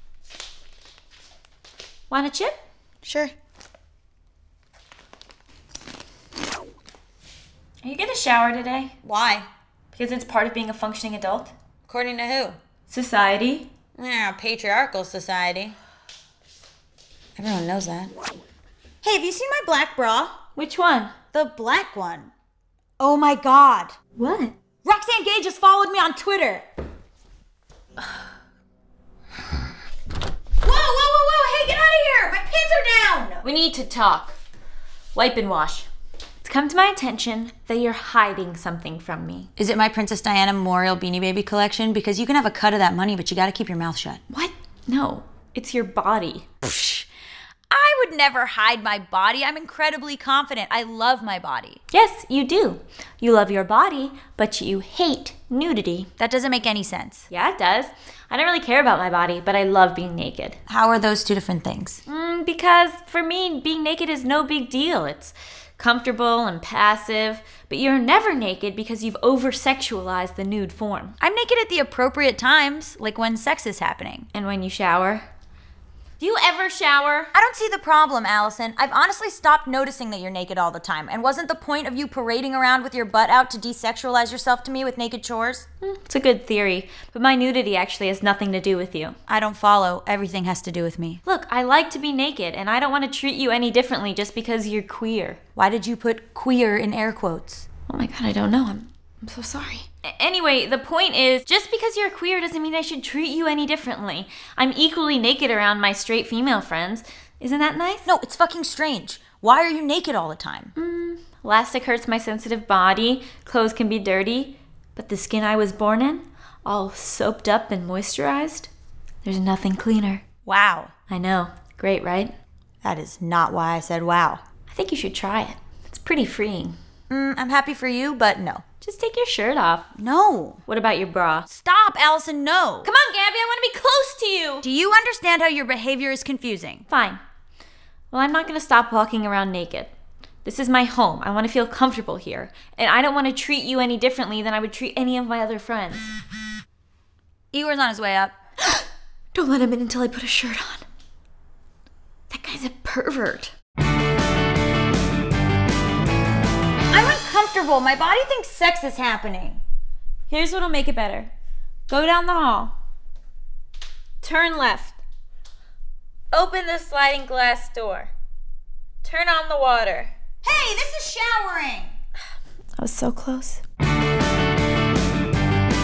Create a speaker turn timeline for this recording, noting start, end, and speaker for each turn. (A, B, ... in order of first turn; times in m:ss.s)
0:02.1-0:02.6 A
0:03.0-0:03.3 B
0:07.8-0:09.0 A
0:09.0-0:09.5 B
0:09.9-0:11.5 A
0:11.9-0:12.6 B
0:12.9-0:13.7 A
0:14.0-0:15.8 B
0:17.4-0:18.1 B
0:19.0-0:20.4 B
0:20.6-0:21.1 A
0:21.3-0:22.3 B
0:23.0-0:24.0 B
0:24.2-0:24.6 A
0:24.8-0:26.6 B
0:30.6-0:33.4 B
0:33.4-0:34.4 A
0:35.2-0:35.9 A
0:36.4-0:39.5 A
0:39.6-0:44.2 B
0:44.3-0:46.5 A
0:46.6-0:47.1 B
0:47.7-0:51.8 B
0:51.9-0:56.1 A
0:56.2-0:57.3 B
0:57.3-1:00.6 A
1:00.7-1:02.0 B
1:02.1-1:11.2 A
1:11.2-1:14.3 B
1:14.3-1:15.2 A
1:16.2-1:17.3 A
1:17.3-1:25.7 B
1:25.8-1:29.2 A
1:29.3-1:31.2 B
1:31.2-1:35.4 A
1:35.6-1:37.6 B
1:37.9-1:48.1 A
1:48.1-1:50.7 B
1:50.8-1:58.7 A
1:59.2-2:00.2 A
2:00.5-2:00.9 B
2:01.1-2:02.3 A
2:02.8-2:04.4 B
2:04.7-2:06.8 A
2:07.1-2:08.6 B
2:08.8-2:09.9 A
2:10.0-2:10.6 B
2:10.7-2:11.5 A
2:11.5-2:12.9 B
2:12.8-2:14.6 A
2:14.6-2:16.9 B
2:16.9-2:17.2 A
2:18.1-2:19.9 A
2:20.4-2:26.1 A
2:27.5-2:28.4 B
2:28.7-2:30.8 A
2:32.3-2:33.5 A
2:36.9-2:39.6 B
2:40.3-2:41.3 A
2:41.9-2:42.7 A
2:44.2-2:45.0 A
2:46.3-2:48.1 A
2:49.0-2:50.1 A
2:50.4-2:51.9 B
2:52.8-2:53.6 A